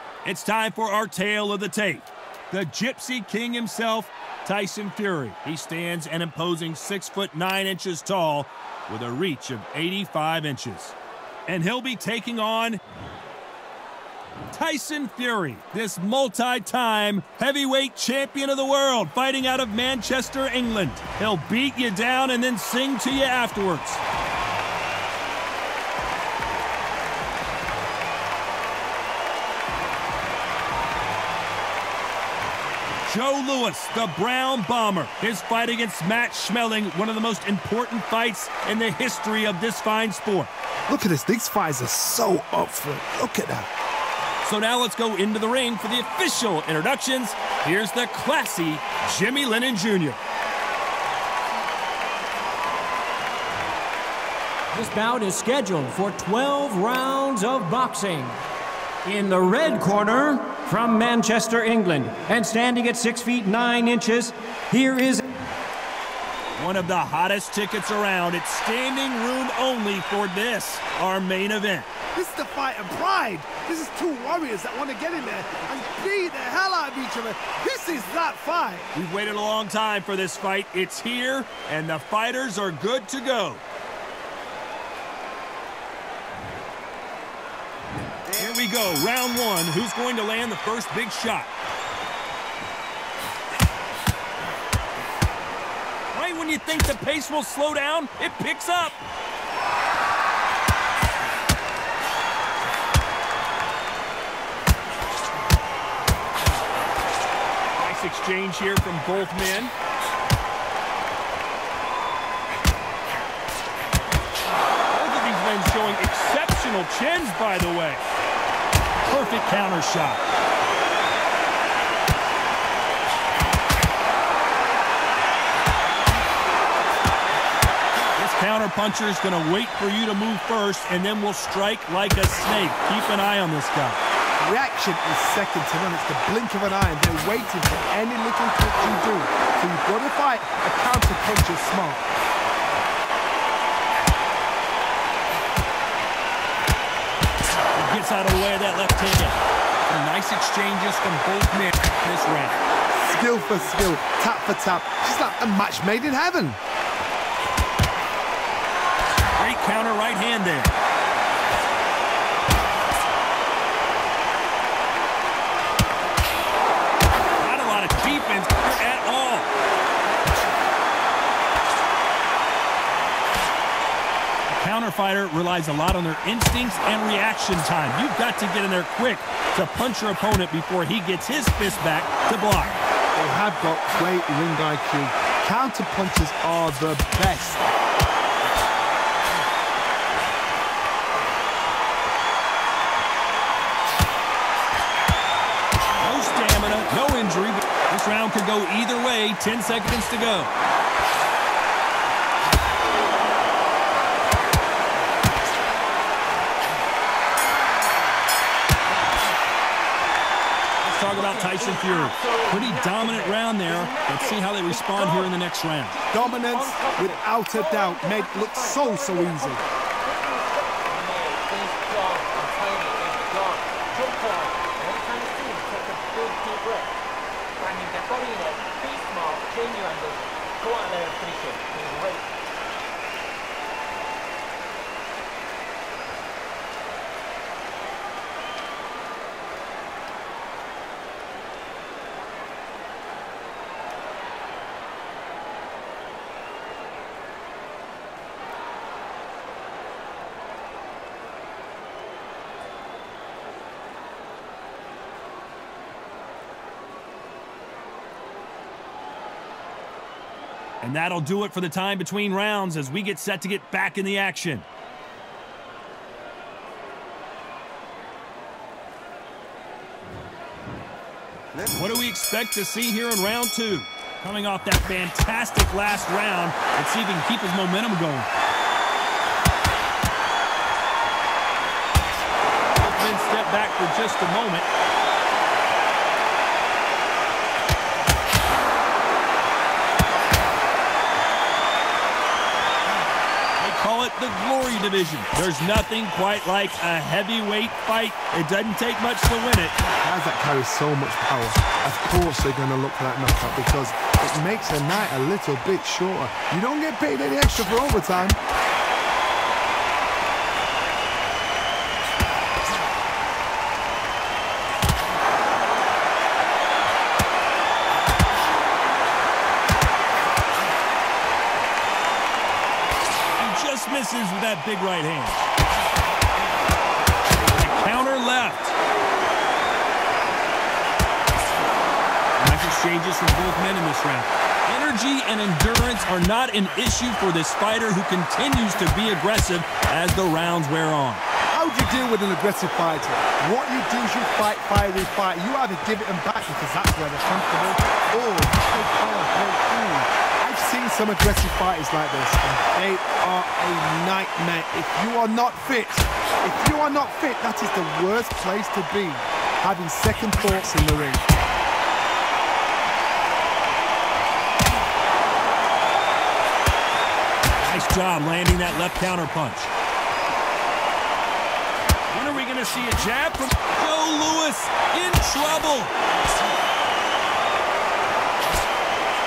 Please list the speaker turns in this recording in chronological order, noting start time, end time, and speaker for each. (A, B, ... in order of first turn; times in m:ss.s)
0:00.2-0:10.9 A
0:11.5-0:12.8 A
0:14.5-0:24.0 A
0:33.0-0:40.5 A
0:40.9-0:43.7 B
0:44.4-0:50.2 A
0:54.7-0:58.4 C
0:59.0-1:05.3 C
1:06.6-1:11.9 A
1:12.1-1:18.9 B
1:18.9-1:23.6 A
1:28.4-1:31.5 A
1:36.1-1:39.0 A
1:47.8-1:49.7 A
1:54.9-1:58.0 A
1:59.0-2:00.2 A
2:08.2-2:14.0 A
2:14.4-2:22.1 B
2:27.7-2:32.6 A
2:32.9-2:36.6 B
2:39.4-2:40.8 A
2:47.4-2:49.5 A
2:54.5-3:02.8 A
3:03.1-3:07.6 B
3:16.0-3:20.5 A
3:30.8-3:36.0 A
3:31.1-3:35.4 D
3:35.9-3:46.9 D
3:36.1-3:39.6 B
3:47.6-3:52.3 D
4:20.8-4:24.6 A
4:31.7-4:38.3 A
4:42.7-4:44.7 A
4:53.6-4:59.8 A
5:00.0-5:08.4 B
5:23.4-5:25.4 A
5:27.4-5:28.7 A
5:32.4-5:41.2 A
5:41.5-6:01.3 B
6:07.6-6:09.7 A
6:12.1-6:15.9 A